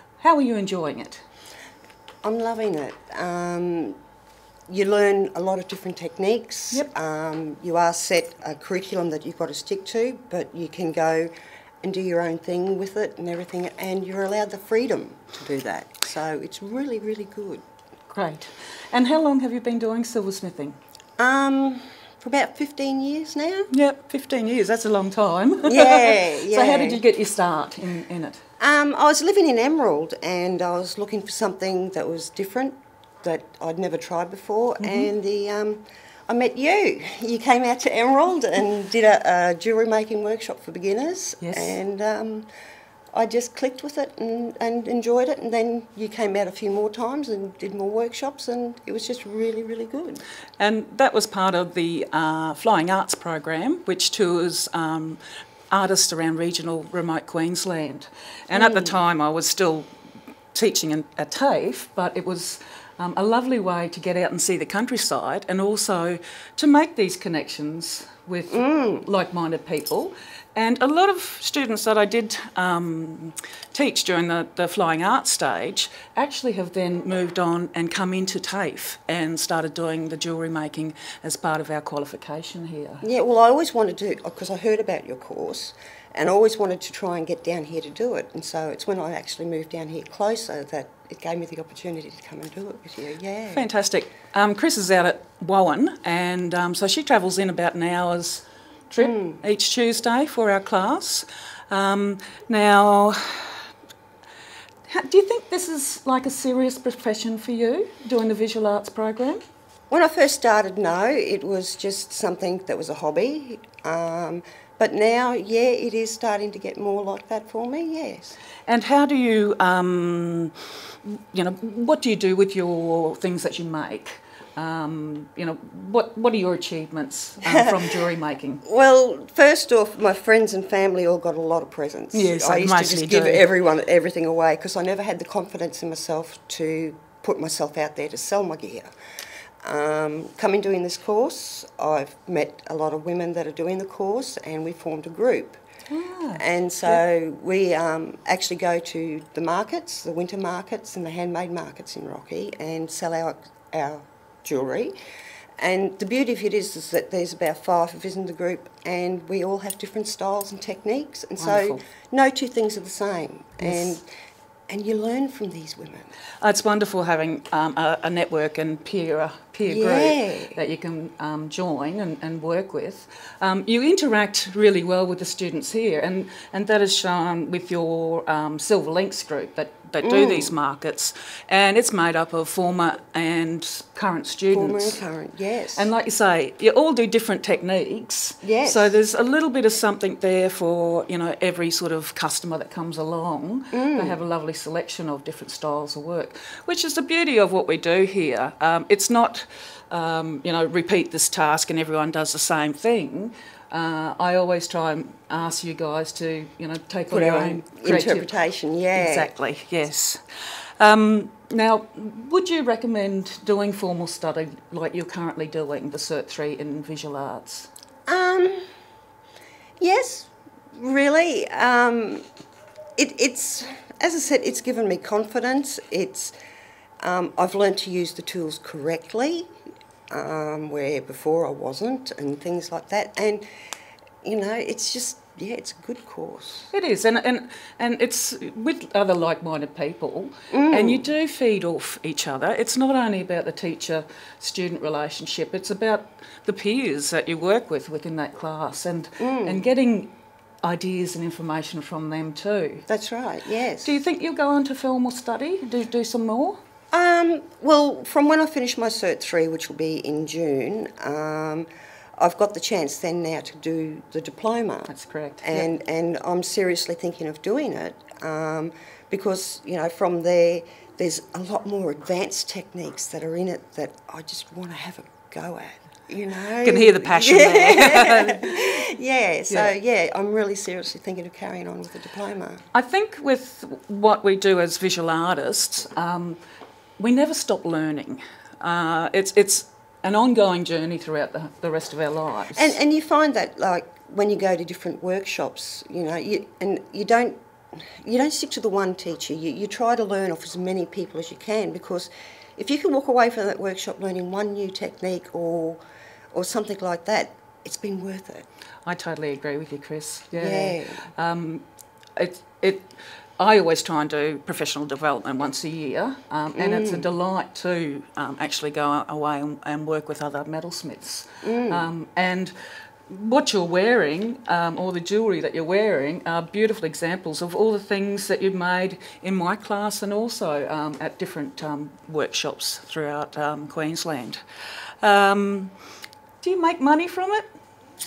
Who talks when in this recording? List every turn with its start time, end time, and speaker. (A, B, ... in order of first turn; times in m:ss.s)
0:00.2-0:01.2 A
0:02.2-0:04.0 B
0:04.7-0:11.3 B
0:11.8-0:17.6 B
0:18.1-0:20.8 A
0:21.2-0:23.7 B
0:23.7-0:28.4 A
0:25.6-0:27.0 B
0:28.6-0:42.5 B
0:34.8-0:35.1 A
0:41.4-0:41.8 A
0:43.1-0:50.2 B
0:50.6-0:59.9 A
0:58.5-0:59.0 B
1:00.5-1:23.1 A
1:08.5-1:09.0 B
1:23.0-1:33.7 B
1:33.5-1:43.6 A
1:39.0-1:39.4 B
1:44.9-1:49.4 A
1:49.9-1:58.4 B
1:58.6-2:08.6 A
2:07.4-2:07.8 B
2:08.6-2:18.9 B
2:12.1-2:13.4 A
2:19.6-2:25.6 B
2:25.9-2:27.0 A
2:26.3-2:34.9 B
2:35.6-2:44.0 B
2:41.4-2:41.8 A
2:43.6-2:44.0 A
2:44.7-2:46.1 B
2:46.4-3:05.0 A
2:49.6-2:50.6 B
3:00.0-3:00.5 B
3:04.5-3:05.9 B
3:05.8-3:28.3 A
3:08.4-3:09.0 B
3:13.7-3:14.2 B
3:27.1-3:29.3 B
3:28.9-3:30.2 A
3:30.8-3:37.7 A
3:38.1-3:38.6 B
3:39.8-3:42.2 B
3:43.0-3:46.3 B
3:47.0-3:49.5 B
3:50.1-3:53.4 B
3:54.2-3:56.7 B
3:56.7-4:10.1 A
4:00.5-4:01.1 B
4:09.2-4:09.7 B
4:10.6-4:12.8 A
4:12.9-4:14.0 B
4:13.8-4:16.6 A
4:16.9-4:21.7 B
4:22.2-4:42.6 B
4:24.9-4:25.7 A
4:36.6-4:38.8 A
4:42.7-4:46.4 A
4:47.0-4:52.8 A
4:52.5-5:05.8 B
5:06.3-5:08.4 B
5:08.8-5:11.6 A
5:10.3-5:11.0 B
5:12.2-5:22.5 A
5:16.5-5:17.1 B
5:21.4-5:21.8 B
5:23.1-5:34.4 A
5:35.0-5:35.7 A
5:36.4-5:37.5 A